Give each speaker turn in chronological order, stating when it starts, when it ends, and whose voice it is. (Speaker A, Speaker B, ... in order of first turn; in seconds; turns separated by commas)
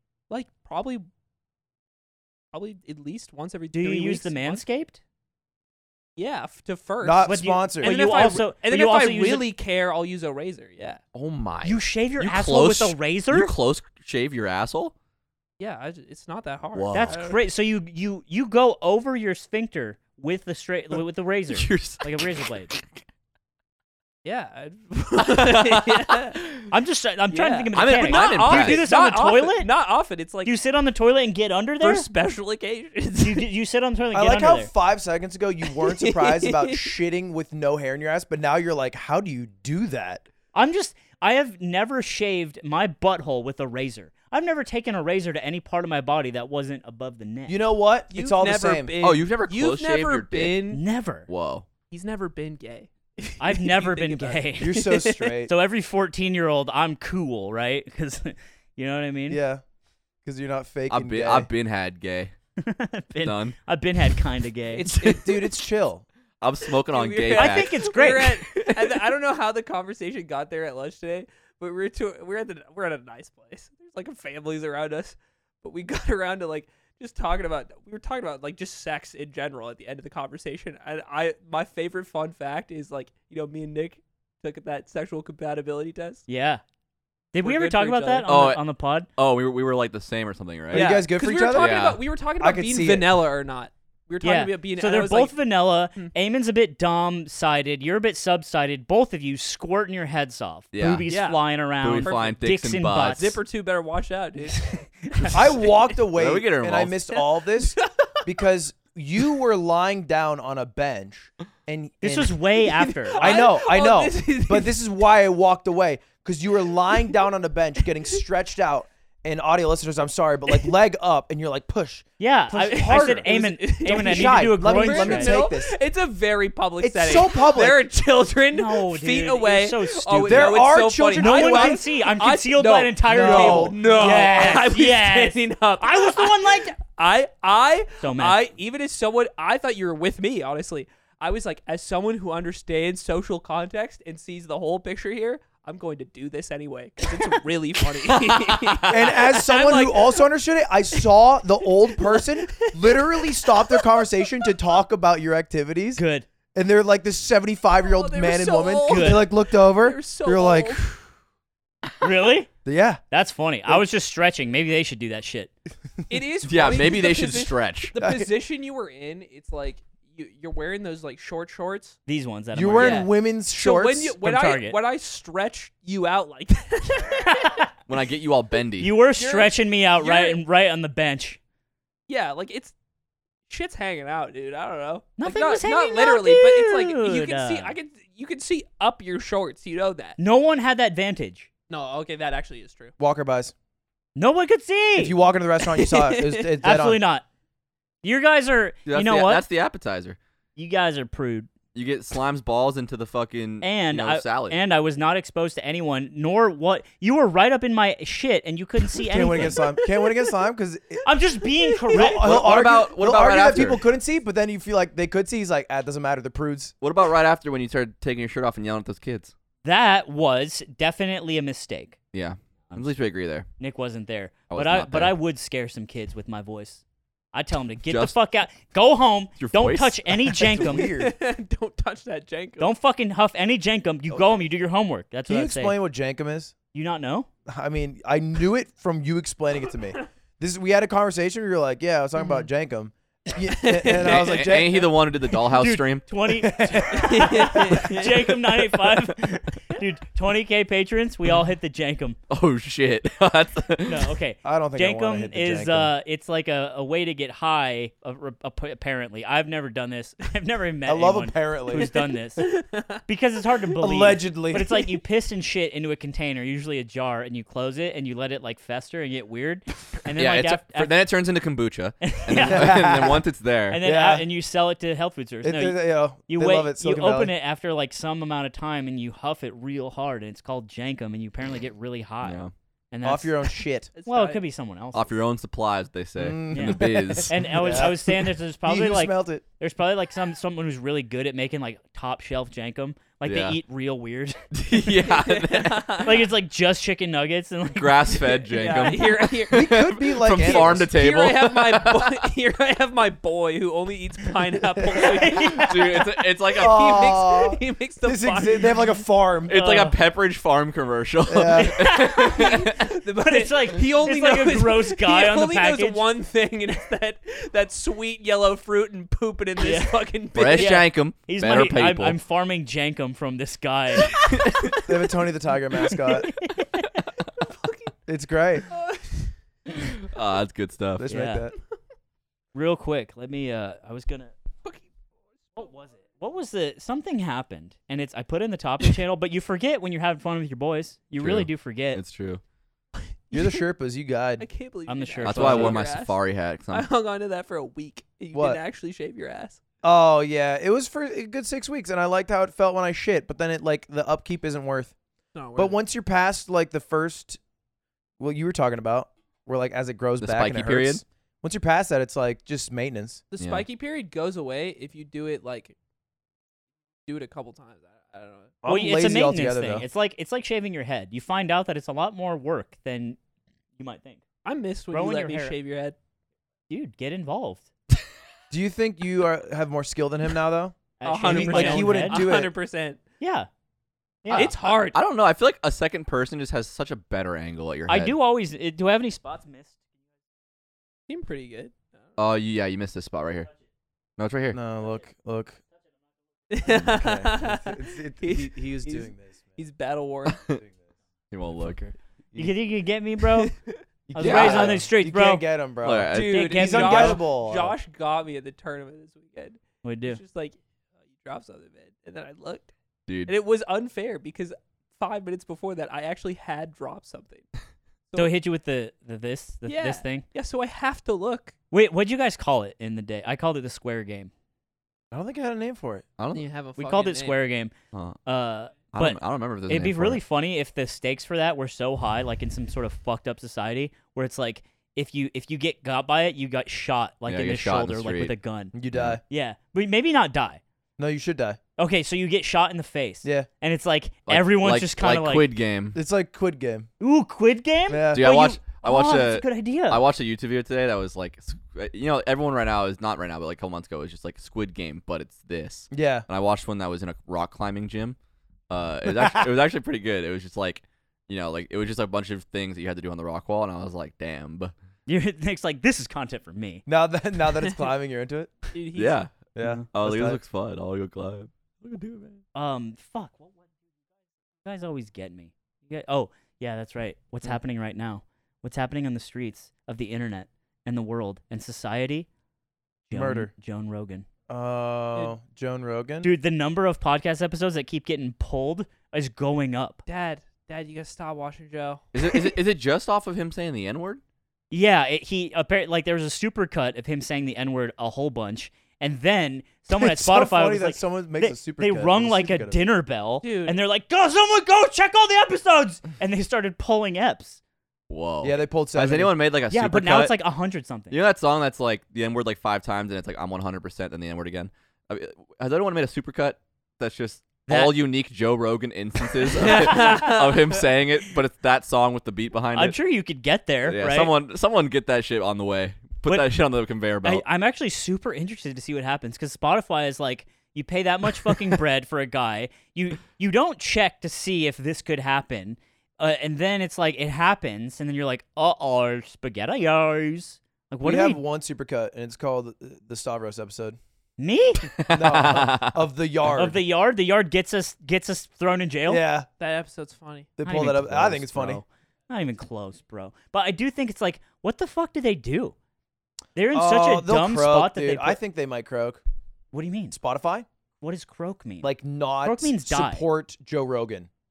Speaker A: 0.3-1.1, Speaker A: 2.5-4.6, Speaker B: 3.7-5.0, Speaker A: 6.2-11.0, Speaker C: 7.0-8.3, Speaker B: 7.3-9.5, Speaker D: 11.1-14.9, Speaker B: 11.6-13.5, Speaker A: 15.6-17.4, Speaker D: 16.7-17.2, Speaker B: 16.9-22.7, Speaker D: 21.5-23.0, Speaker A: 24.2-26.4, Speaker D: 25.2-26.6, Speaker B: 26.7-29.7, Speaker A: 27.3-30.5, Speaker D: 27.7-28.8, Speaker B: 30.4-32.1, Speaker A: 31.8-33.5, Speaker B: 33.2-34.7, Speaker C: 34.1-40.2, Speaker A: 35.7-36.9, Speaker B: 40.5-47.6, Speaker C: 47.5-49.0, Speaker A: 48.1-50.8, Speaker D: 49.0-50.6, Speaker B: 50.7-51.3, Speaker D: 51.3-51.7, Speaker A: 51.9-55.4, Speaker B: 53.4-54.9, Speaker C: 54.6-55.5, Speaker B: 55.5-59.4, Speaker C: 59.3-59.6, Speaker C: 60.2-61.5, Speaker D: 60.9-62.3, Speaker B: 62.6-64.9, Speaker D: 63.2-63.5, Speaker C: 64.7-66.0, Speaker D: 66.4-67.9, Speaker A: 66.9-86.2, Speaker B: 67.3-68.4, Speaker D: 68.5-68.8, Speaker B: 86.3-86.6, Speaker B: 87.3-89.1, Speaker A: 87.4-88.3, Speaker D: 88.3-88.6, Speaker D: 89.2-91.0, Speaker C: 90.7-91.8, Speaker A: 90.7-95.3, Speaker D: 91.5-92.0, Speaker C: 92.4-93.1, Speaker B: 94.2-103.3, Speaker D: 100.7-101.1, Speaker A: 101.1-101.4, Speaker D: 101.8-103.4, Speaker A: 102.0-102.4, Speaker A: 103.2-105.8, Speaker B: 104.5-105.3, Speaker C: 105.3-112.4, Speaker D: 106.1-107.0, Speaker A: 107.2-108.1, Speaker B: 112.0-113.4, Speaker A: 112.6-114.8, Speaker C: 113.2-125.8, Speaker B: 122.2-125.4, Speaker A: 122.7-150.2, Speaker C: 126.8-127.8, Speaker B: 128.5-136.8, Speaker C: 130.2-131.8, Speaker C: 133.1-133.8, Speaker B: 138.0-138.4, Speaker D: 148.1-149.0, Speaker C: 148.9-156.0, Speaker A: 151.9-154.5, Speaker B: 156.0-156.3, Speaker C: 156.6-160.9, Speaker A: 157.8-161.0, Speaker B: 158.9-159.3, Speaker B: 162.0-162.5, Speaker C: 162.7-163.0, Speaker B: 163.1-165.5, Speaker A: 166.1-172.0, Speaker D: 166.4-167.9, Speaker C: 168.0-168.3, Speaker B: 172.1-173.1, Speaker C: 172.5-174.2, Speaker A: 172.8-177.6, Speaker B: 174.2-174.8, Speaker B: 177.1-177.7, Speaker D: 177.9-178.9, Speaker B: 178.8-181.4, Speaker A: 179.2-180.4, Speaker A: 182.1-182.7, Speaker A: 183.5-190.2, Speaker B: 185.2-187.7, Speaker B: 190.2-191.5, Speaker A: 191.7-192.9, Speaker C: 193.0-193.5, Speaker B: 194.2-195.2, Speaker C: 195.0-197.0, Speaker A: 195.6-196.6, Speaker B: 196.6-197.2, Speaker B: 198.0-199.4, Speaker D: 198.9-200.2, Speaker B: 200.6-201.5, Speaker D: 201.7-204.6, Speaker B: 203.6-209.6, Speaker C: 209.1-211.1, Speaker B: 211.1-212.3, Speaker A: 211.6-212.0, Speaker C: 211.9-216.7, Speaker D: 212.0-213.8, Speaker D: 216.8-219.3, Speaker B: 219.6-222.0, Speaker D: 222.1-223.5, Speaker B: 223.6-226.8, Speaker D: 224.5-225.1, Speaker B: 227.3-230.9, Speaker D: 227.9-228.2, Speaker D: 229.4-230.4, Speaker C: 230.3-231.1, Speaker A: 230.7-232.7, Speaker B: 232.6-235.8, Speaker C: 235.3-236.5, Speaker B: 236.7-237.3, Speaker C: 237.5-244.9, Speaker A: 243.5-244.5, Speaker D: 244.0-246.1, Speaker B: 245.5-252.2, Speaker C: 246.3-247.8, Speaker A: 246.9-248.3, Speaker D: 252.3-254.2, Speaker B: 253.8-262.5, Speaker C: 254.4-255.9, Speaker C: 260.9-261.9, Speaker A: 261.8-263.0, Speaker B: 263.1-270.9, Speaker C: 263.8-264.9, Speaker D: 270.1-273.8, Speaker B: 272.0-272.9, Speaker C: 272.4-273.2, Speaker B: 273.7-283.5, Speaker C: 273.8-274.3, Speaker C: 275.4-277.3, Speaker D: 282.2-282.5, Speaker C: 283.0-283.9, Speaker A: 283.9-284.4, Speaker B: 284.1-285.2, Speaker D: 284.9-287.4, Speaker C: 286.2-289.4, Speaker B: 286.5-294.4, Speaker D: 293.2-293.6, Speaker D: 294.5-296.0, Speaker A: 295.0-296.3, Speaker B: 296.0-299.0, Speaker D: 297.8-302.2, Speaker A: 298.5-305.7, Speaker C: 299.5-300.9, Speaker B: 304.9-306.1, Speaker D: 305.4-307.1, Speaker A: 306.5-309.0, Speaker C: 306.6-309.6, Speaker D: 309.5-312.9, Speaker B: 309.5-310.0, Speaker C: 311.3-311.8, Speaker B: 311.6-316.0, Speaker A: 312.2-320.9, Speaker B: 319.6-320.0, Speaker D: 320.3-322.2, Speaker B: 320.5-324.1, Speaker D: 324.2-324.8, Speaker C: 324.8-326.4, Speaker B: 326.2-326.9, Speaker A: 327.4-327.9, Speaker C: 328.1-328.7, Speaker A: 328.7-329.3, Speaker D: 329.7-331.1, Speaker C: 331.0-331.5, Speaker B: 331.1-331.5, Speaker B: 332.5-334.3, Speaker A: 334.6-334.9, Speaker B: 335.6-342.0, Speaker D: 341.2-342.4, Speaker A: 343.0-343.6, Speaker C: 343.3-344.5, Speaker A: 344.4-346.2, Speaker B: 344.9-345.8, Speaker D: 345.2-346.9, Speaker A: 346.7-349.6, Speaker C: 348.3-348.6, Speaker C: 349.8-354.9, Speaker A: 355.4-355.8, Speaker C: 355.6-357.4, Speaker C: 358.2-363.2, Speaker D: 360.2-361.0, Speaker A: 363.3-365.8, Speaker D: 363.4-363.7, Speaker A: 367.1-368.6, Speaker C: 368.6-369.9, Speaker B: 368.7-373.2, Speaker B: 373.8-374.2, Speaker A: 374.4-376.0, Speaker B: 374.9-375.6, Speaker B: 376.7-377.7, Speaker C: 378.5-382.5, Speaker B: 381.0-382.2, Speaker A: 381.0-383.0, Speaker B: 383.2-383.5, Speaker B: 384.2-384.5, Speaker A: 384.3-385.0, Speaker D: 384.3-388.1, Speaker B: 387.9-389.8, Speaker A: 391.1-392.0, Speaker D: 392.2-393.5, Speaker D: 394.2-394.6, Speaker C: 394.5-395.6, Speaker A: 396.5-400.4, Speaker C: 396.7-399.6, Speaker D: 400.3-400.6, Speaker D: 401.3-402.5, Speaker B: 402.4-403.5, Speaker A: 403.2-403.8, Speaker C: 404.1-407.8, Speaker B: 404.1-405.4, Speaker D: 404.2-404.9, Speaker D: 405.8-406.4, Speaker A: 406.1-410.6, Speaker B: 406.1-407.2, Speaker B: 409.8-410.2, Speaker A: 411.1-412.7, Speaker D: 413.1-413.3, Speaker A: 413.3-417.5, Speaker B: 418.2-420.2, Speaker A: 419.7-421.5, Speaker B: 421.7-424.3, Speaker C: 425.1-426.1, Speaker D: 426.2-426.4, Speaker A: 426.3-427.4, Speaker B: 426.8-427.7, Speaker D: 427.9-428.2, Speaker B: 428.3-438.7, Speaker D: 428.9-430.2, Speaker D: 437.3-438.3, Speaker C: 438.7-439.2, Speaker D: 438.9-439.2, Speaker B: 439.3-440.6, Speaker C: 441.0-441.6, Speaker B: 441.8-445.5, Speaker D: 444.3-446.0, Speaker C: 445.9-446.9, Speaker B: 447.0-450.0, Speaker C: 447.9-448.3, Speaker D: 448.1-458.2, Speaker C: 455.9-456.2, Speaker D: 458.7-464.7, Speaker C: 459.1-459.5, Speaker B: 465.1-466.8, Speaker C: 466.9-468.7, Speaker A: 467.6-467.9, Speaker A: 468.7-469.2, Speaker D: 468.9-469.3, Speaker C: 469.6-470.4, Speaker B: 469.6-469.9, Speaker D: 469.9-472.4, Speaker B: 472.6-473.5, Speaker B: 474.6-482.3, Speaker B: 483.1-484.3, Speaker C: 483.1-483.5, Speaker C: 484.5-486.3, Speaker B: 486.2-490.0, Speaker A: 490.1-492.1, Speaker D: 492.1-494.2, Speaker B: 494.7-507.6, Speaker C: 499.9-502.8, Speaker A: 503.4-503.8, Speaker D: 508.1-510.4, Speaker C: 508.4-509.4, Speaker B: 509.7-511.2, Speaker D: 511.1-523.0, Speaker B: 517.7-518.0, Speaker A: 519.5-520.8, Speaker B: 519.6-520.4, Speaker B: 522.8-524.3, Speaker D: 523.9-527.4, Speaker B: 527.2-541.4, Speaker C: 541.0-544.0, Speaker B: 544.4-544.9, Speaker D: 545.0-546.0, Speaker C: 545.1-546.8, Speaker B: 546.5-549.2, Speaker C: 549.1-549.5, Speaker A: 549.6-550.5, Speaker C: 550.6-551.8, Speaker B: 550.6-555.8, Speaker B: 556.6-558.4, Speaker C: 556.7-559.2, Speaker B: 559.7-560.2, Speaker C: 560.1-560.7, Speaker B: 561.0-561.9, Speaker C: 561.8-564.3, Speaker B: 562.4-563.2